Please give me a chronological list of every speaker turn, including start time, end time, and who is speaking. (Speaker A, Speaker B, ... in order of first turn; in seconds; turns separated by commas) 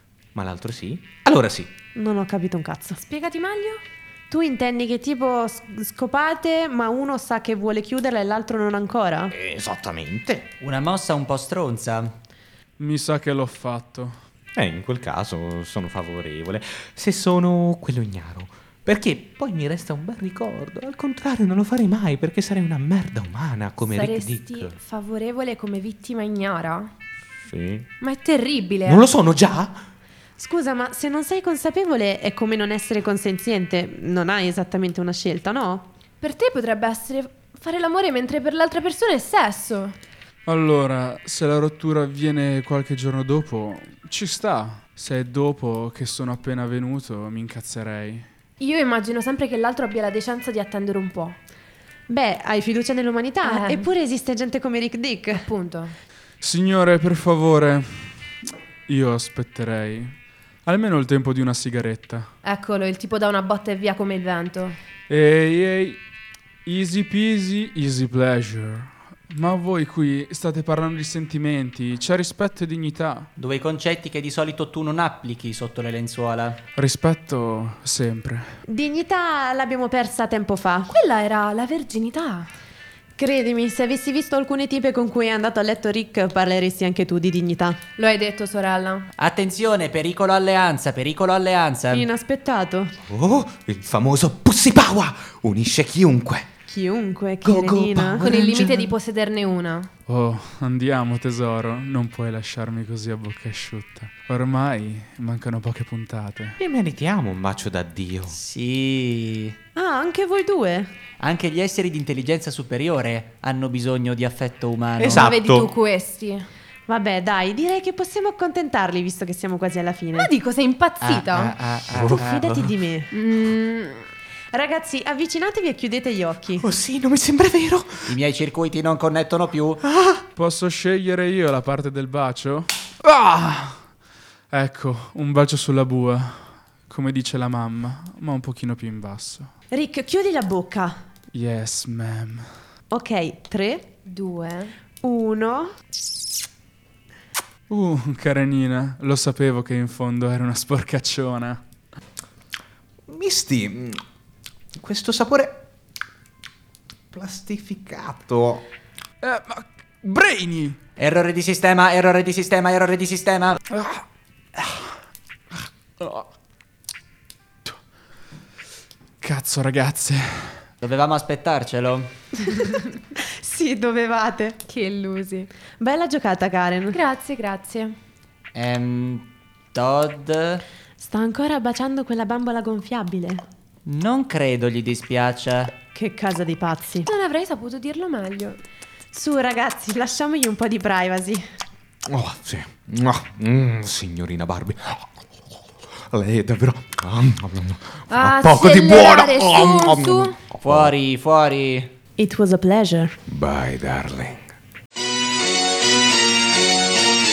Speaker A: 0.3-1.7, Speaker B: 1.9-3.0, Speaker C: 3.0-3.8, Speaker B: 4.3-9.3, Speaker A: 9.3-10.5, Speaker D: 10.6-12.1, Speaker E: 12.8-14.2, Speaker A: 14.6-24.8, Speaker C: 23.8-26.9, Speaker A: 27.5-27.9, Speaker C: 28.0-29.1, Speaker A: 28.9-29.9, Speaker B: 30.4-35.9, Speaker C: 36.2-40.0, Speaker E: 40.5-48.3, Speaker C: 48.6-51.4, Speaker B: 52.1-55.5, Speaker C: 53.4-53.9, Speaker C: 55.3-56.0, Speaker E: 56.4-58.1, Speaker E: 58.9-60.1, Speaker E: 60.6-62.3, Speaker C: 62.4-64.8, Speaker E: 65.1-66.0, Speaker E: 66.7-73.3, Speaker D: 73.4-76.6, Speaker E: 76.8-78.5, Speaker B: 78.7-80.9, Speaker C: 80.9-82.5, Speaker B: 83.2-87.8, Speaker C: 88.0-89.1, Speaker D: 89.2-92.1, Speaker B: 91.9-92.9, Speaker A: 93.1-96.5, Speaker B: 96.7-98.3, Speaker A: 97.4-98.9, Speaker C: 98.2-99.9, Speaker E: 100.1-106.6, Speaker A: 106.6-108.3, Speaker D: 108.3-109.6, Speaker B: 109.8-110.9, Speaker D: 111.2-115.3, Speaker A: 115.0-115.7, Speaker C: 115.2-116.5, Speaker B: 116.9-120.3, Speaker C: 120.1-121.5, Speaker D: 121.0-122.7, Speaker B: 122.0-123.1, Speaker C: 123.1-124.1, Speaker B: 124.5-126.7, Speaker A: 126.6-128.1, Speaker D: 128.1-129.8, Speaker A: 129.8-130.2, Speaker E: 130.4-133.8, Speaker E: 134.5-139.5, Speaker B: 139.7-141.0, Speaker E: 141.3-142.4, Speaker B: 142.9-143.8, Speaker C: 144.1-144.7, Speaker B: 145.0-145.7, Speaker E: 147.7-151.6, Speaker A: 153.1-154.0, Speaker A: 154.8-155.6, Speaker A: 157.1-158.7, Speaker E: 159.2-160.8, Speaker D: 161.0-163.6, Speaker E: 163.7-164.0, Speaker E: 164.6-164.9, Speaker E: 166.0-166.3, Speaker E: 169.2-170.7, Speaker D: 170.8-172.1, Speaker B: 173.4-174.6, Speaker C: 174.7-175.5, Speaker B: 175.8-177.0, Speaker C: 176.9-178.0, Speaker D: 178.5-180.6, Speaker B: 181.0-183.4, Speaker D: 183.9-185.7, Speaker B: 185.9-187.1, Speaker C: 187.1-188.6, Speaker B: 189.1-191.4, Speaker A: 192.1-195.1, Speaker A: 196.1-200.9, Speaker C: 198.1-200.4, Speaker D: 200.6-201.9, Speaker B: 202.2-203.2, Speaker A: 203.3-204.5